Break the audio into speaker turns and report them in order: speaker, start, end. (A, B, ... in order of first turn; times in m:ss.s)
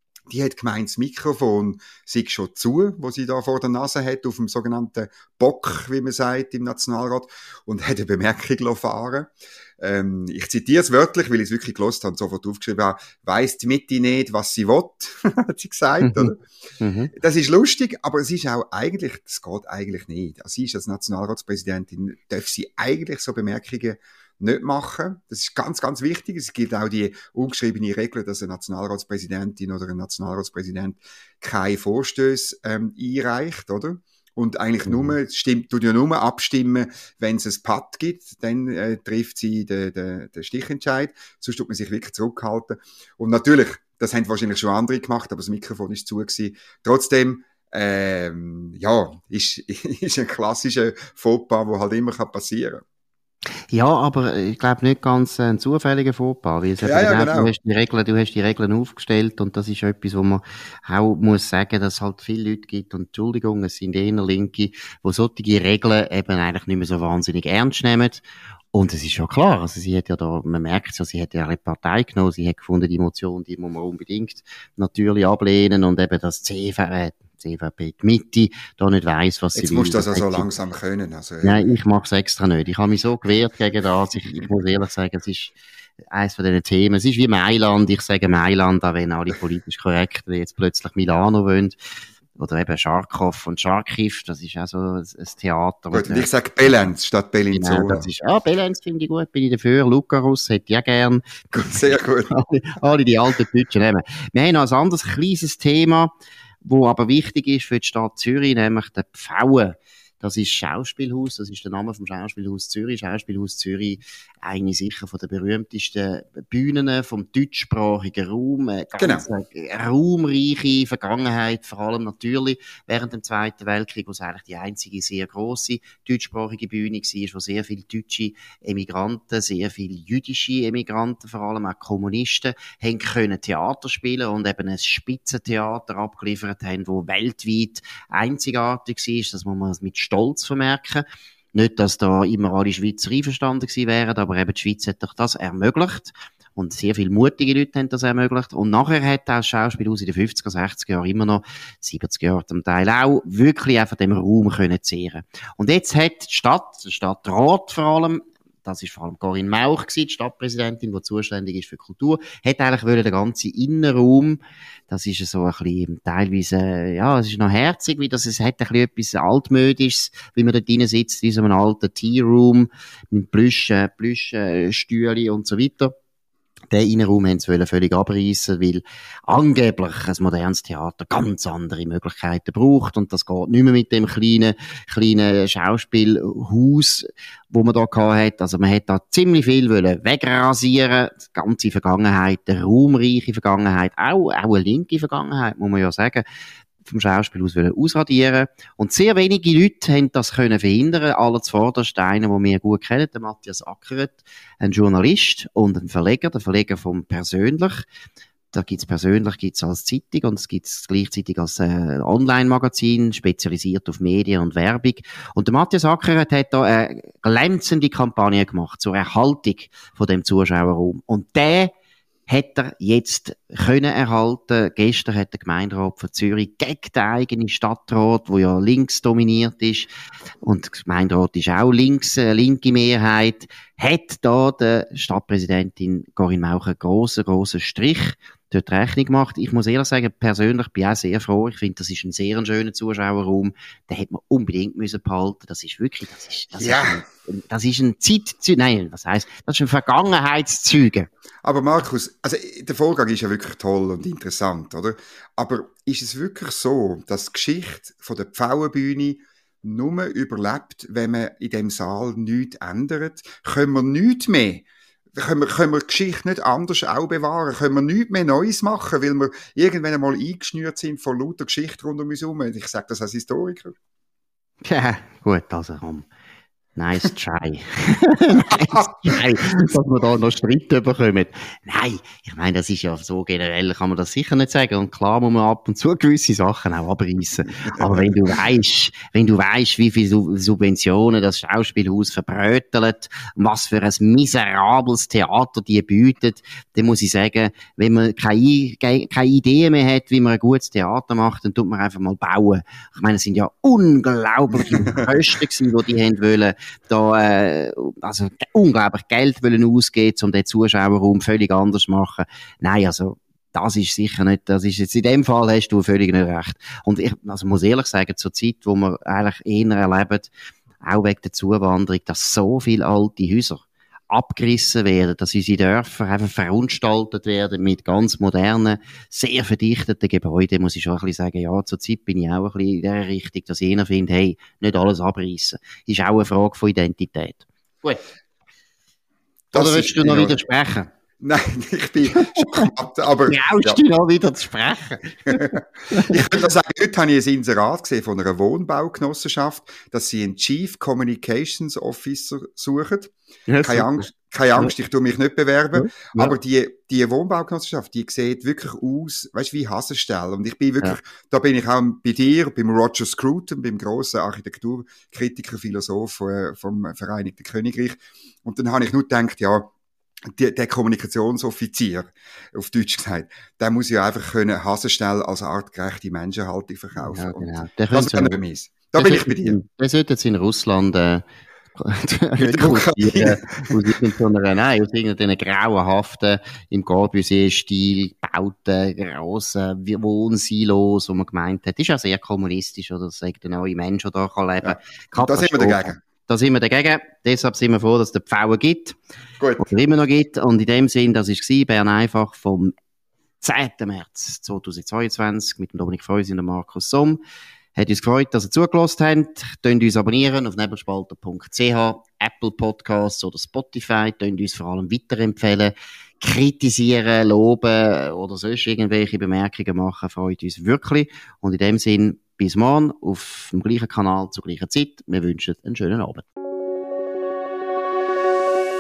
0:00.3-0:16.4 A
0:16.0-0:17.1 B
0:17.1-0:52.8 A
0:34.9-0:35.2 B
0:53.7-1:08.2 B
0:56.8-0:57.5 A
1:08.7-1:20.5 B
1:19.6-1:21.6 A
1:21.4-1:25.5 B
1:26.1-1:31.8 B
1:32.4-1:36.3 B
1:35.9-1:38.1 A
1:37.5-1:41.8 B
1:41.5-1:42.3 A
1:42.3-1:46.1 B
1:46.6-2:55.9 B
1:59.0-1:59.3 A
2:56.7-3:16.2 B
3:16.8-3:27.8 B
3:28.5-3:41.7 B
3:42.3-3:49.9 B
3:50.4-4:11.1 B
4:06.6-4:07.0 A
4:11.4-4:33.8 A
4:34.6-4:36.1 B
4:36.8-5:20.3 B
4:38.5-4:39.2 A
4:47.6-4:48.3 A
5:04.6-5:05.1 A
5:20.8-5:38.0 B
5:39.5-5:40.4 A
5:39.5-5:40.9 B
5:41.2-5:43.8 A
5:42.1-5:42.7 B
5:43.3-5:46.3 B
5:45.3-6:09.7 A
5:53.5-5:54.7 B
5:55.8-5:56.3 B
6:10.3-6:19.6 A
6:17.0-6:18.4 B
6:19.0-6:21.2 B
6:21.8-6:39.0 B
6:22.4-6:23.9 A
6:34.6-6:36.0 A
6:39.4-6:39.7 A
6:39.6-6:42.7 B
6:43.4-6:47.2 B
6:47.8-7:06.3 B